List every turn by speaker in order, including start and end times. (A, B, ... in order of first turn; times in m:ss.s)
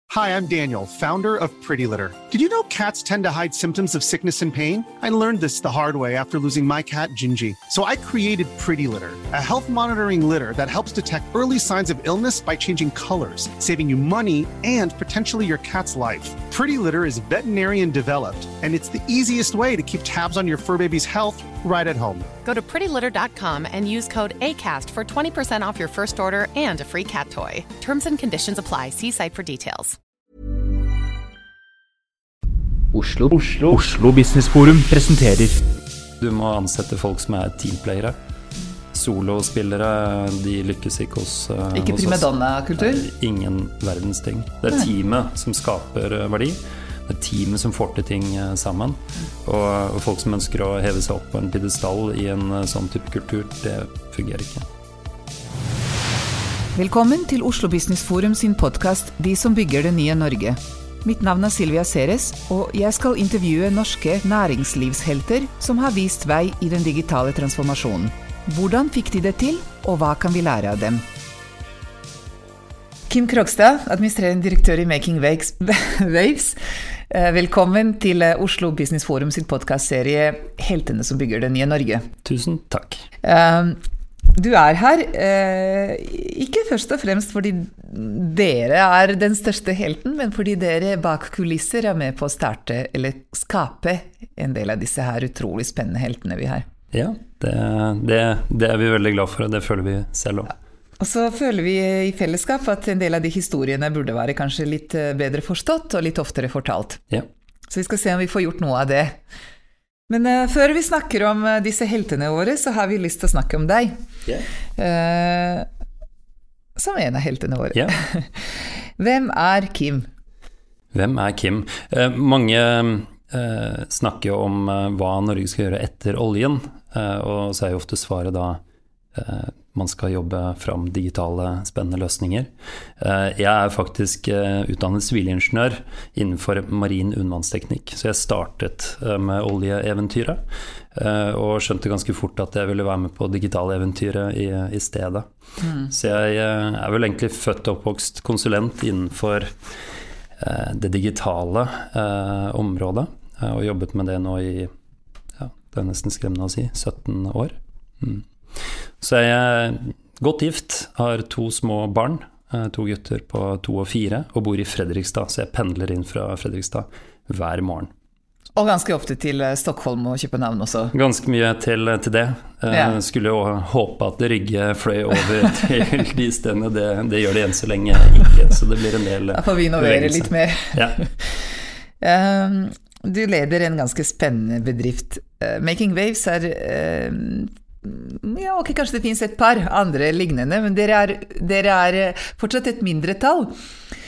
0:00.1-0:22.3 A
0:22.4-0:30.0 B
0:32.9-0:35.6 C
0:36.2-0:38.2 D
0:38.9-0:54.7 D
0:41.7-0:43.1 E
0:56.8-1:11.0 E
1:13.1-1:16.6 E
1:17.1-1:22.1 E
1:22.2-1:23.1 D
1:23.2-1:23.8 E
1:24.3-1:36.7 E
1:36.9-1:40.5 D
1:41.0-1:47.0 E
1:47.7-1:49.2 E
1:50.1-1:54.0 E
1:54.8-1:55.7 E
1:56.8-2:00.1 E
2:00.9-2:08.6 D
2:09.1-2:25.3 D
2:25.6-2:25.9 E
2:25.9-2:29.6 D
2:30.4-2:34.7 D
2:35.4-2:38.3 D
2:39.0-2:47.9 D
2:48.6-2:50.9 E
2:50.9-3:01.0 D
2:52.7-2:53.0 E
2:59.3-3:01.3 E
3:02.0-3:13.5 E